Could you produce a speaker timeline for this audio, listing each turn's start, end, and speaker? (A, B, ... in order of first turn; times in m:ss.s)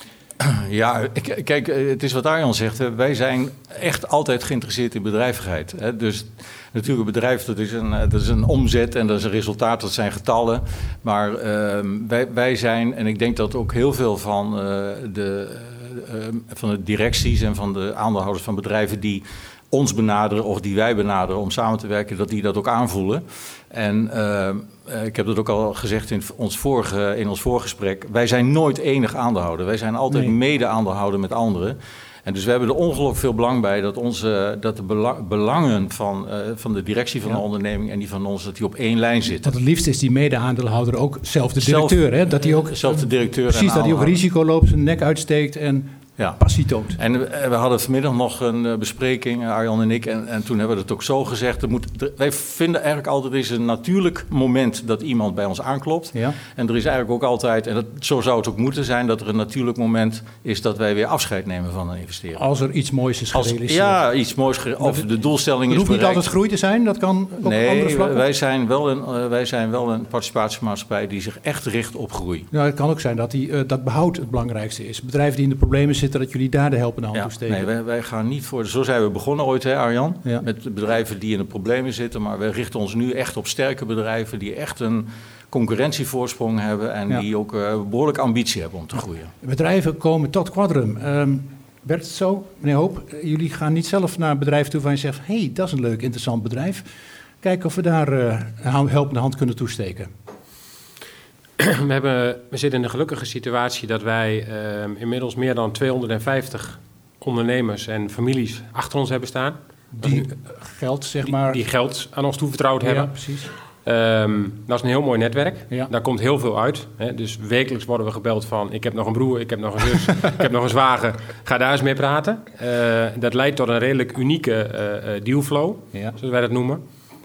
0:00.4-0:39.5 A
0:30.1-0:30.4 B
0:39.4-0:47.0 B
0:41.6-0:44.2 A
0:46.9-1:02.4 A
1:02.4-1:04.0 B
1:03.3-1:06.3 A
1:04.8-1:05.1 B
1:05.7-1:08.3 B
1:07.4-1:12.5 A
1:12.5-1:17.7 B
1:17.1-1:29.3 A
1:29.4-1:36.9 B
1:37.4-1:40.1 B
1:41.6-1:50.3 C
1:50.0-1:51.6 B
1:51.2-1:53.3 C
1:52.8-1:53.5 B
1:53.8-2:06.8 C